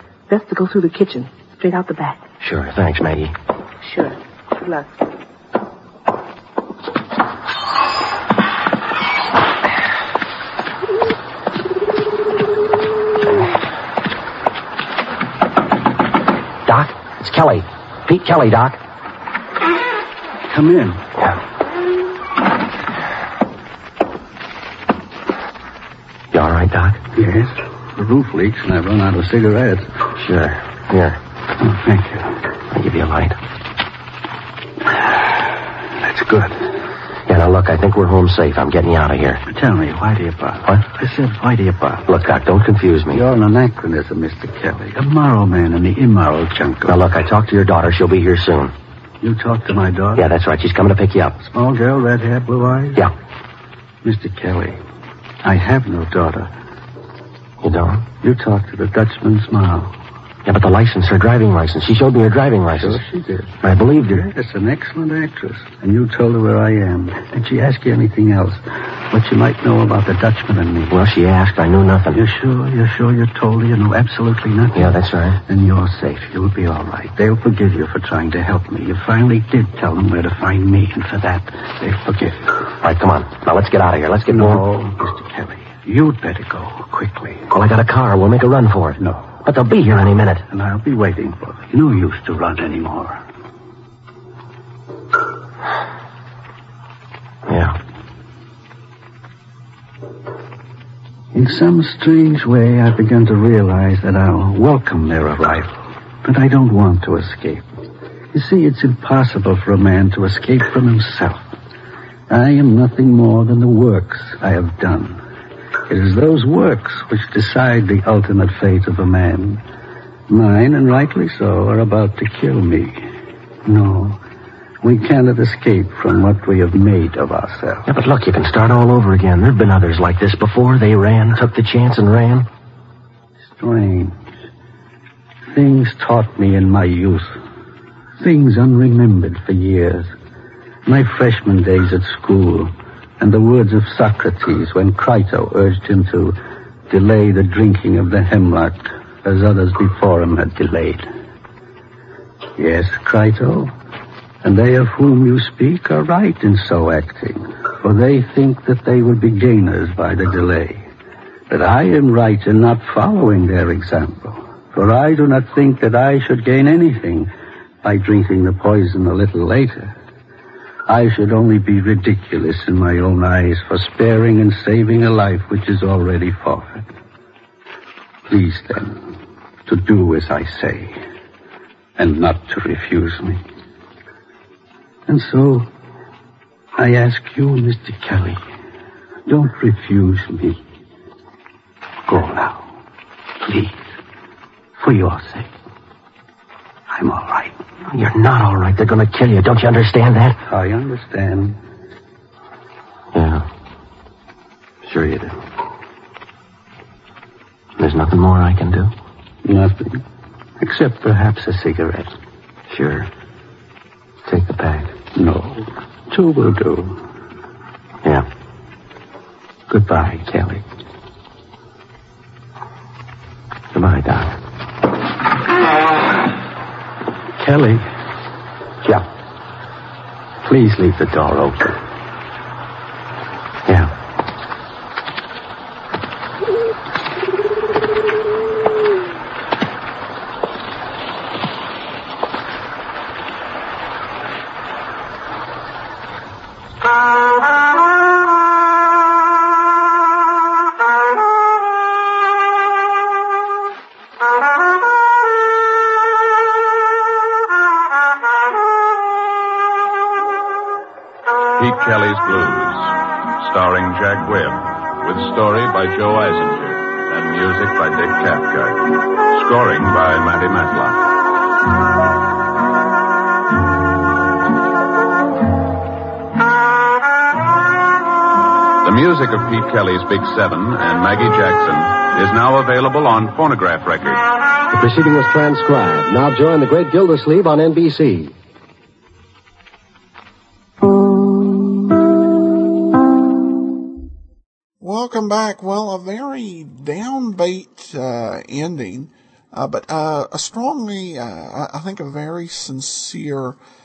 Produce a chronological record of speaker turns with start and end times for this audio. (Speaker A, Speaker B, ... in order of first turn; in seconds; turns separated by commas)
Speaker A: 0.3-2.2, Speaker B: 2.4-3.3, Speaker A: 3.8-4.9, Speaker B: 16.6-18.8, Speaker C: 20.5-21.0, Speaker B: 26.3-27.0, Speaker C: 27.1-29.9, Speaker B: 30.1-31.2, Speaker C: 31.6-32.4, Speaker B: 32.7-33.4, Speaker C: 36.0-36.7, Speaker B: 37.3-39.4, Speaker C: 39.5-42.1, Speaker B: 42.1-43.2, Speaker C: 43.1-47.0, Speaker B: 46.9-48.7, Speaker C: 49.2-50.3, Speaker B: 50.2-51.4, Speaker C: 51.4-53.1, Speaker C: 54.0-54.8, Speaker C: 55.4-56.5, Speaker B: 57.6-58.0, Speaker C: 58.1-59.9, Speaker B: 60.5-63.0, Speaker C: 62.8-63.5, Speaker B: 63.6-64.2, Speaker C: 64.1-71.0, Speaker B: 70.9-72.2, Speaker C: 72.1-82.6, Speaker B: 74.8-75.4, Speaker B: 82.8-84.6, Speaker C: 84.3-87.5, Speaker B: 87.5-90.4, Speaker C: 89.0-89.2, Speaker C: 90.5-93.2, Speaker B: 97.5-97.8, Speaker C: 101.3-105.7, Speaker C: 106.2-107.7, Speaker C: 108.3-111.5, Speaker C: 112.3-115.2, Speaker C: 115.9-119.6, Speaker C: 120.3-123.1, Speaker C: 123.6-124.2, Speaker C: 124.8-127.9, Speaker B: 127.9-132.5, Speaker C: 133.5-134.2, Speaker C: 135.5-137.4, Speaker C: 138.2-140.1, Speaker C: 140.8-146.4, Speaker C: 146.9-151.1, Speaker C: 152.6-153.7, Speaker C: 154.4-160.9, Speaker C: 161.5-167.3, Speaker C: 167.8-169.9, Speaker C: 170.9-176.9, Speaker C: 178.3-179.0, Speaker C: 179.7-181.0, Speaker C: 182.0-183.4, Speaker C: 185.1-185.7, Speaker C: 186.8-188.4, Speaker C: 189.3-190.6, Speaker C: 192.1-192.7, Speaker C: 193.4-194.0, Speaker C: 194.8-195.5, Speaker C: 196.9-197.6, Speaker B: 197.9-200.4, Speaker C: 200.5-201.6, Speaker B: 203.1-203.4, Speaker B: 204.8-205.4, Speaker B: 207.8-208.9, Speaker C: 209.4-210.0, Speaker C: 210.6-212.1, Speaker B: 212.7-213.1, Speaker B: 214.2-214.9, Speaker C: 215.1-217.0, Speaker C: 219.7-220.6, Speaker B: 223.7-224.4, Speaker C: 227.4-227.9, Speaker B: 230.4-231.7, Speaker B: 233.7-233.9, Speaker D: 261.6-271.0, Speaker D: 278.8-284.2, Speaker E: 284.7-288.3, Speaker F: 294.8-303.6